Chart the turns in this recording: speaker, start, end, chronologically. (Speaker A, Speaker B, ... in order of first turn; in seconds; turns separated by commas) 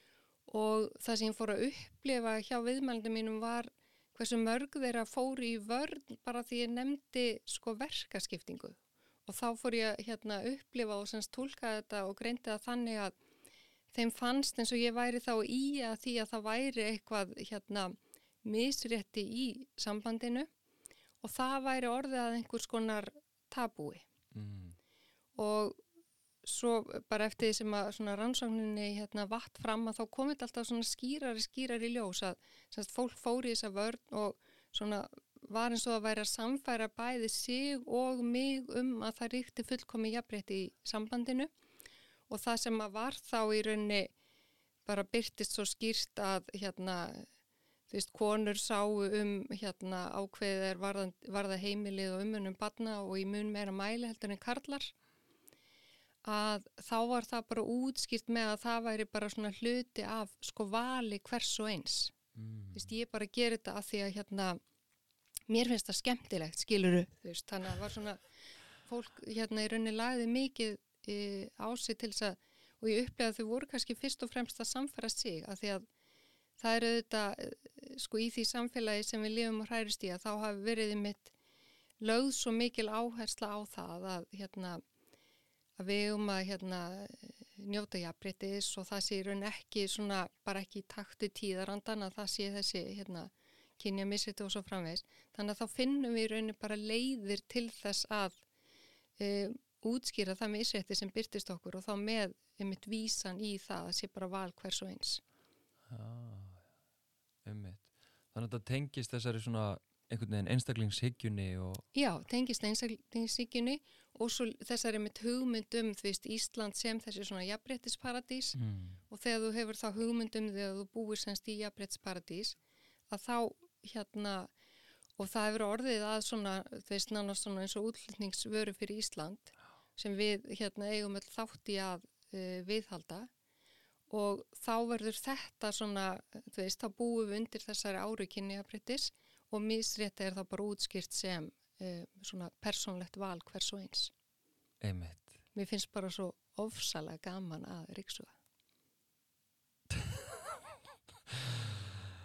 Speaker A: 0.5-13.1, Speaker A: 13.9-20.5, Speaker A: 21.2-24.0, Speaker B: 24.3-24.8, Speaker A: 25.4-25.8, Speaker A: 26.4-41.5, Speaker A: 42.3-44.1, Speaker A: 44.9-47.3, Speaker A: 47.9-54.9, Speaker A: 56.2-62.1, Speaker B: 62.4-62.9, Speaker A: 62.7-64.6, Speaker A: 65.5-68.2, Speaker A: 68.8-75.8, Speaker A: 76.6-81.3, Speaker A: 82.0-84.8, Speaker A: 85.8-98.4, Speaker A: 99.2-105.2, Speaker B: 105.9-106.6, Speaker B: 107.5-111.8, Speaker A: 111.9-118.6, Speaker B: 118.5-119.0, Speaker A: 119.1-122.6, Speaker A: 123.1-124.5, Speaker A: 125.2-133.3, Speaker A: 134.1-144.1, Speaker B: 144.8-145.3, Speaker A: 145.5-148.3